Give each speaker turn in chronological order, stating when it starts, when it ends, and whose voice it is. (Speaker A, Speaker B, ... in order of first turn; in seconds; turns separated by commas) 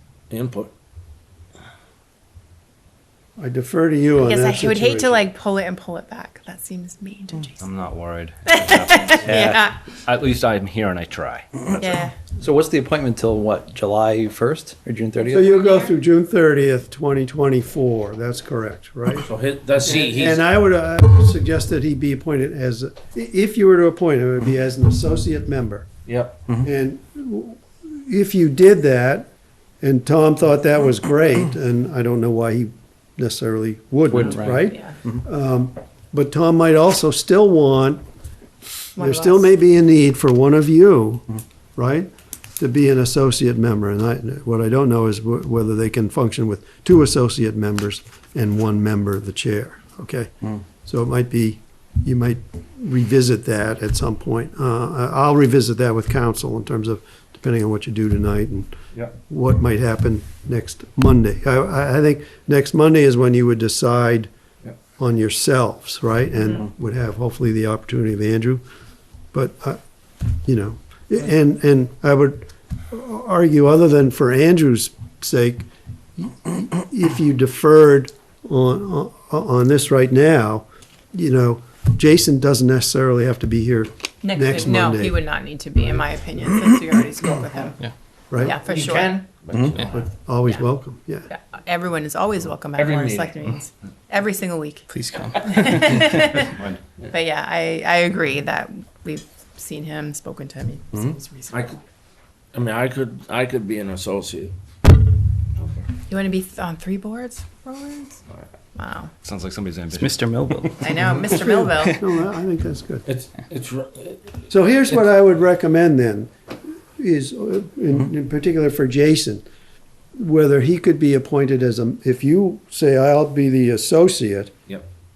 Speaker A: 0.3-0.7, Speaker B: 3.4-5.2, Speaker C: 4.2-7.6, Speaker D: 7.6-11.8, Speaker C: 8.4-9.8, Speaker C: 11.8-12.1, Speaker E: 12.4-15.4, Speaker C: 15.2-15.9, Speaker B: 15.3-19.3, Speaker A: 19.1-20.4, Speaker B: 19.8-25.9, Speaker A: 26.1-26.4, Speaker B: 26.6-29.3, Speaker B: 29.8-38.0, Speaker E: 34.1-35.1, Speaker C: 34.6-35.0, Speaker C: 39.0-39.5, Speaker B: 39.0-64.3, Speaker B: 65.0-68.6, Speaker B: 69.3-69.8, Speaker B: 70.4-85.2, Speaker C: 84.2-89.2, Speaker B: 88.3-88.6, Speaker A: 88.5-90.1, Speaker E: 89.5-89.8, Speaker B: 89.8-91.3, Speaker C: 91.3-101.7, Speaker A: 92.8-93.4, Speaker E: 94.9-96.0, Speaker D: 96.4-96.8, Speaker A: 101.5-101.8, Speaker A: 102.5-104.5, Speaker A: 105.5-105.8, Speaker C: 106.1-108.2, Speaker C: 108.7-109.1, Speaker D: 109.2-110.8, Speaker E: 109.9-110.9, Speaker C: 110.8-112.0, Speaker B: 111.3-113.0, Speaker A: 113.0-114.4, Speaker B: 114.5-116.3, Speaker B: 117.0-119.4, Speaker B: 120.2-124.5